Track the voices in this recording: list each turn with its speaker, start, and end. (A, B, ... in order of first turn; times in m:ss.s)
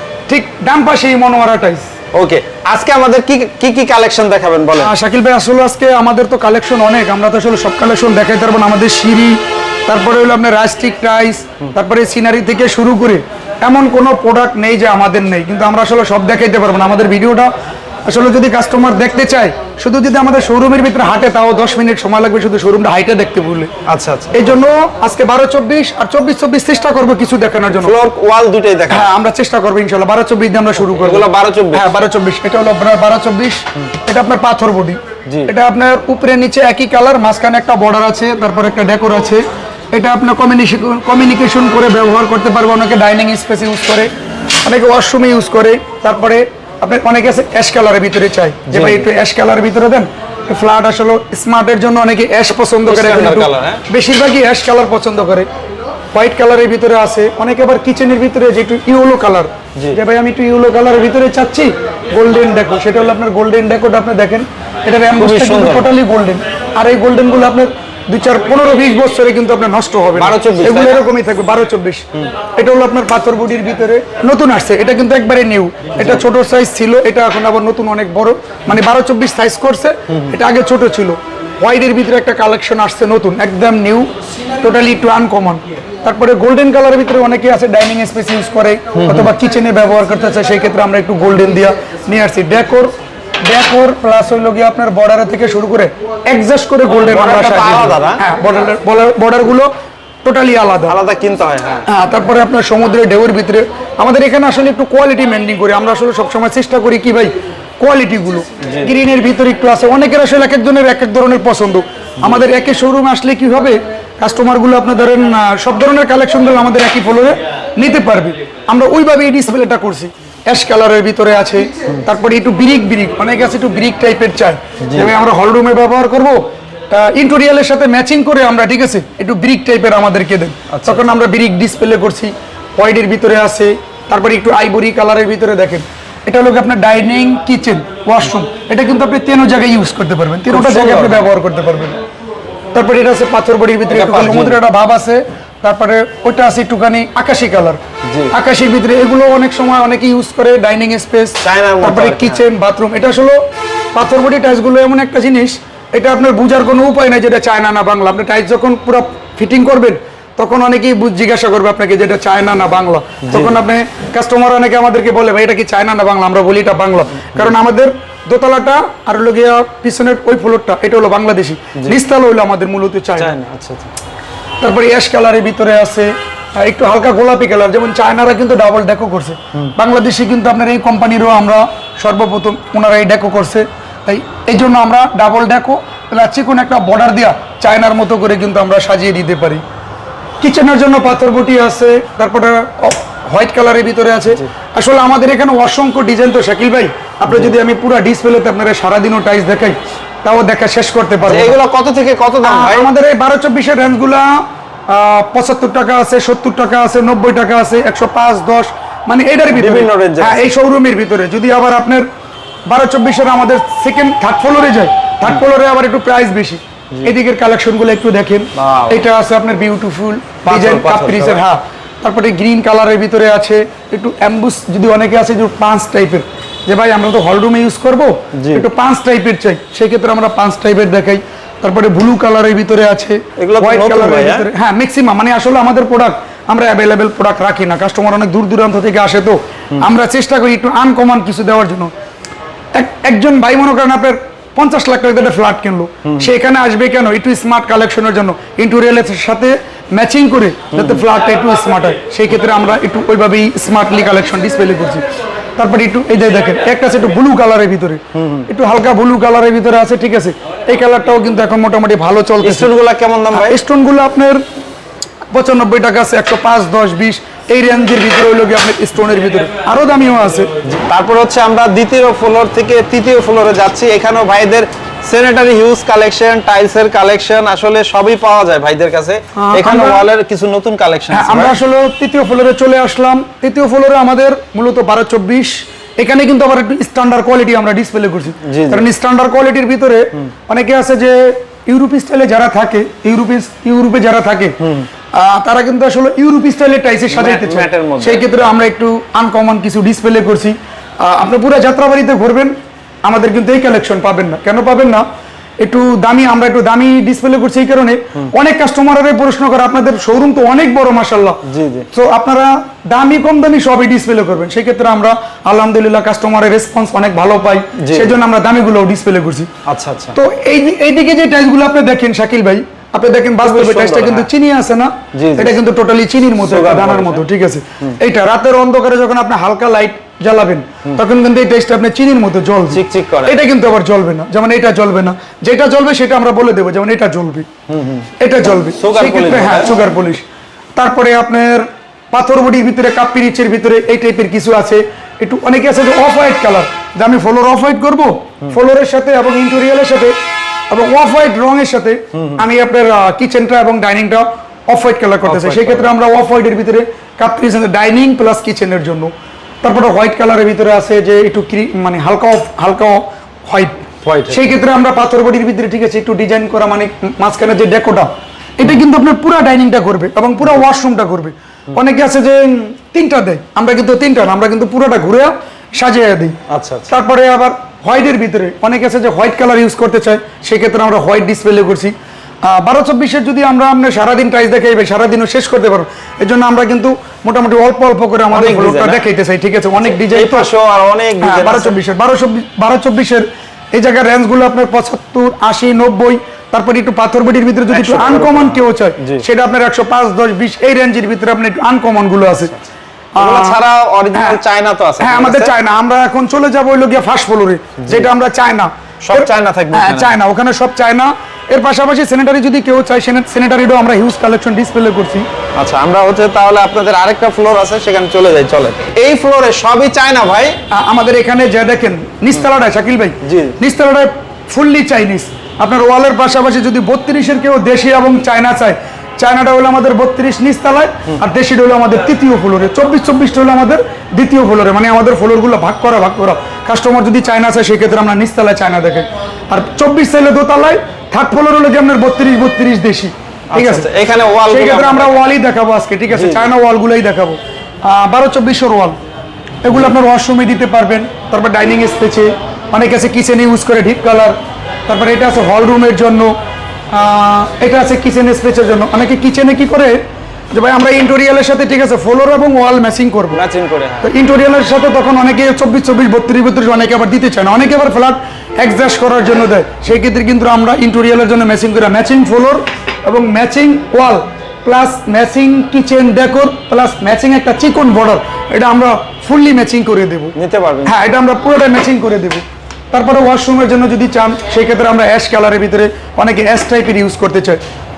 0:00.3-0:01.9 A
0:02.1-0:04.9 B
0:04.8-0:17.5 A
0:18.0-0:23.7 A
0:23.9-0:24.4 B
0:24.3-0:28.0 A
0:27.8-0:29.1 B
0:28.9-0:44.1 A
0:31.0-0:31.9 B
0:35.3-0:35.5 B
0:44.6-0:55.5 A
0:48.7-0:49.0 B
0:52.8-0:53.8 B
0:56.1-1:32.9 A
1:05.2-1:05.9 B
1:10.2-1:11.0 B
1:28.9-1:29.3 B
1:33.4-1:39.7 A
1:36.9-1:38.2 B
1:40.2-1:41.0 A
1:40.9-1:41.8 B
1:41.9-2:22.0 A
1:48.6-1:48.9 B
2:04.8-2:05.1 B
2:10.7-2:11.1 B
2:20.5-2:21.3 B
2:22.7-2:27.8 A
2:23.9-2:24.6 B
2:28.1-2:28.3 B
2:28.3-2:33.4 A
2:31.4-2:32.4 B
2:33.9-2:53.3 A
2:43.2-2:43.5 B
2:53.2-2:53.9 B
2:54.6-3:09.6 A
3:10.4-3:21.6 A
3:21.2-3:22.9 B
3:22.4-3:32.1 A
3:29.5-3:30.5 B
3:32.7-4:01.9 A
3:38.5-3:39.0 B
3:40.4-3:41.4 B
3:48.3-3:48.6 B
3:53.4-3:54.4 B
4:02.7-4:15.0 A
4:10.7-4:11.0 B
4:15.6-4:22.7 A
4:18.2-4:18.5 B
4:22.4-4:23.6 B
4:23.3-4:24.4 A
4:25.3-4:30.5 A
4:30.6-4:41.6 B
4:39.3-4:40.0 A
4:41.1-4:54.6 A
4:48.4-4:48.8 B
4:54.6-4:54.9 B
4:55.1-5:05.0 A
4:57.1-4:58.3 B
5:05.6-5:19.5 A
5:11.4-5:11.9 B
5:17.8-5:18.2 B
5:19.7-5:20.2 B
5:20.1-5:37.5 A
5:23.4-5:24.3 B
5:25.1-5:25.6 B
5:26.4-5:27.2 B
5:32.7-5:33.4 B
5:37.7-5:38.1 B
5:38.2-5:40.2 A
5:38.8-5:39.7 B
5:40.8-5:50.2 A
5:50.7-5:59.1 A
5:52.2-5:52.4 B
5:55.2-5:55.9 B
5:59.6-6:16.4 A
6:04.0-6:04.5 B
6:16.5-6:16.9 B
6:16.9-6:30.5 A
6:28.3-6:29.0 B
6:29.8-6:31.8 B
6:31.2-6:42.5 A
6:37.7-6:39.2 B
6:43.2-6:43.6 A
6:43.2-6:45.5 B
6:44.1-6:44.4 A
6:45.0-6:55.3 A
6:47.8-6:48.1 B
6:49.0-6:50.1 B
6:55.6-7:00.6 B
7:00.7-7:23.9 A
7:03.2-7:03.6 B
7:23.5-7:25.2 B
7:24.5-7:29.0 A
7:26.1-7:26.5 B
7:29.6-7:34.4 A
7:34.9-7:36.3 A
7:36.9-7:40.0 A
7:40.5-7:43.4 A
7:43.3-7:44.1 B
7:44.0-8:00.3 A
8:00.3-8:00.9 B
8:00.8-8:07.6 A